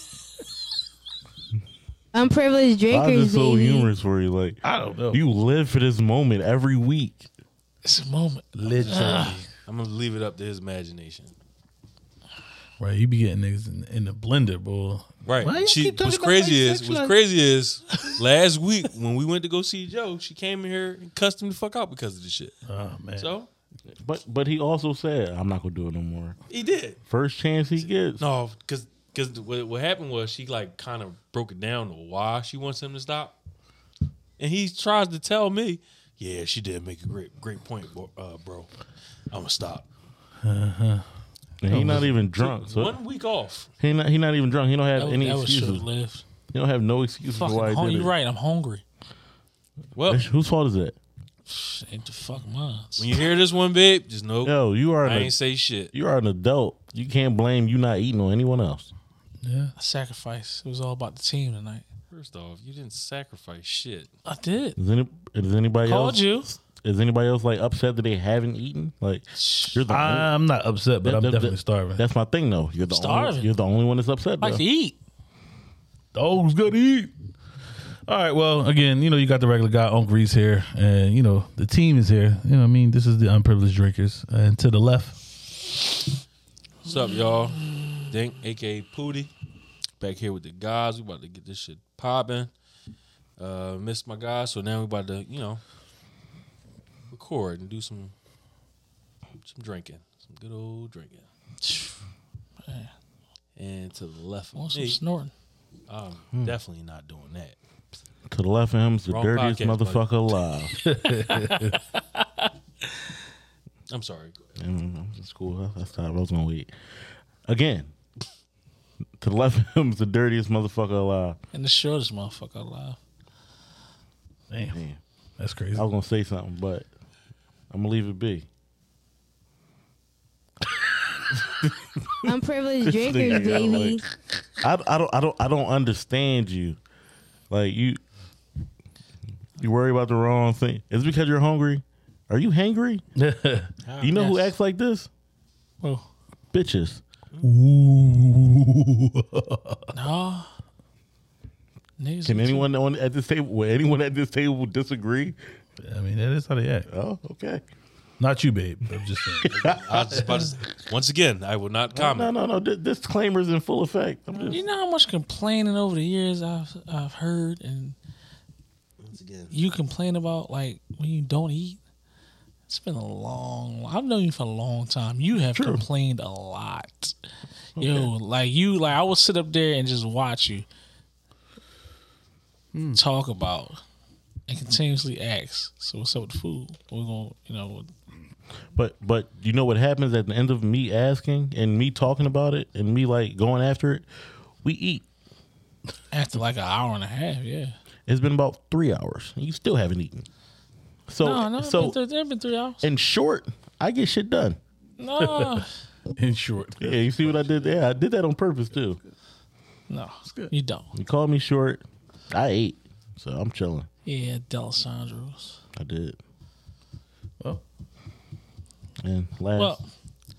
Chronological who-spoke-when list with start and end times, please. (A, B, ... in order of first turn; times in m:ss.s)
0:02.1-0:03.9 A
0:02.9-0:07.3 B
0:04.6-0:05.2 C
0:07.8-0:09.4 D
0:08.6-0:09.5 C
0:09.7-0:11.3 E
0:12.8-0:17.1 C
0:15.2-0:22.6 E
0:22.7-0:23.3 C
0:23.2-0:23.5 E
0:23.9-0:26.4 B
0:26.5-0:27.0 E
0:27.1-0:28.2 B
0:27.8-0:33.4 E
0:34.4-0:38.7 E
0:39.3-0:39.9 E
0:40.4-0:41.0 C
0:41.6-0:43.0 B
0:41.6-0:42.2 C
0:42.4-0:43.7 E
0:43.8-0:45.9 B
0:45.0-0:46.2 D
0:46.5-0:48.1 B
0:47.3-0:48.8 D
0:50.0-0:50.3 E
0:50.1-0:51.0 B
0:51.5-0:53.2 D
0:53.0-0:55.9 E
0:54.4-0:55.4 B
0:55.9-0:58.9 B
0:59.4-0:59.7 C
0:59.8-1:01.9 D
1:02.1-1:04.1 E
1:04.2-1:04.8 D
1:04.8-1:10.3 B
1:05.8-1:06.5 D
1:09.3-1:09.8 D
1:09.9-1:12.0 C
1:11.0-1:14.6 B
1:12.9-1:13.5 D
1:14.4-1:15.0 D
1:16.1-1:17.1 C
1:18.1-1:25.2 C
1:26.8-1:29.3 E
1:27.6-1:28.1 D
1:30.0-1:32.5 E
1:33.4-1:35.6 E
1:37.1-1:38.1 E
1:39.4-1:41.3 E
1:41.6-1:42.0 D
1:42.6-1:42.9 D
1:43.6-1:45.0 E
1:44.5-1:45.3 D
1:45.9-1:47.6 E
1:48.3-1:50.8 B
1:49.1-1:50.1 E
1:50.8-1:51.8 C
1:51.3-1:52.5 D
1:53.9-1:54.5 E
1:54.6-1:57.9 B
1:59.2-2:01.4 B
2:01.5-2:03.0 D
2:04.5-2:04.8 C
2:04.7-2:05.0 B
2:05.4-2:05.8 C
2:05.7-2:06.9 B
2:07.7-2:08.5 B
2:11.4-2:12.3 B
2:12.2-2:14.0 A
2:12.8-2:14.0 B
2:14.6-2:16.8 B
2:17.5-2:18.0 B
2:19.6-2:23.0 B
2:23.2-2:23.7 C
2:23.8-2:24.2 E
2:24.0-2:25.1 B
2:24.0-2:24.5 D
2:25.8-2:26.1 D
2:26.5-2:27.0 B
2:27.4-2:29.8 C
2:29.9-2:30.5 D
2:32.0-2:32.7 D
2:32.2-2:35.4 B
2:35.8-2:36.9 C
2:36.9-2:37.6 B
2:38.2-2:39.5 C
2:39.4-2:40.5 B
2:39.5-2:42.3 E
2:41.9-2:44.6 B
2:44.5-2:48.0 D
2:49.0-2:49.5 E
2:49.5-2:51.8 D
2:52.7-2:57.2 D
2:55.5-2:55.8 B
2:57.8-2:58.1 B
2:57.8-3:00.6 D
3:02.7-3:03.0 C
3:03.0-3:03.8 D
3:04.5-3:07.9 D
3:08.7-3:14.1 B
3:14.6-3:15.0 B
3:16.1-3:17.8 D
3:18.1-3:20.3 B
3:21.1-3:22.0 B
3:21.2-3:22.8 D
3:22.8-3:24.6 B
3:25.0-3:25.7 D
3:25.2-3:25.6 C
3:26.2-3:27.7 C
3:26.8-3:29.0 B
3:29.9-3:30.9 D
3:30.2-3:30.5 C
3:30.9-3:33.9 B
3:34.0-3:35.6 D
3:35.8-3:36.2 B
3:39.0-3:39.8 B
3:39.6-3:39.9 D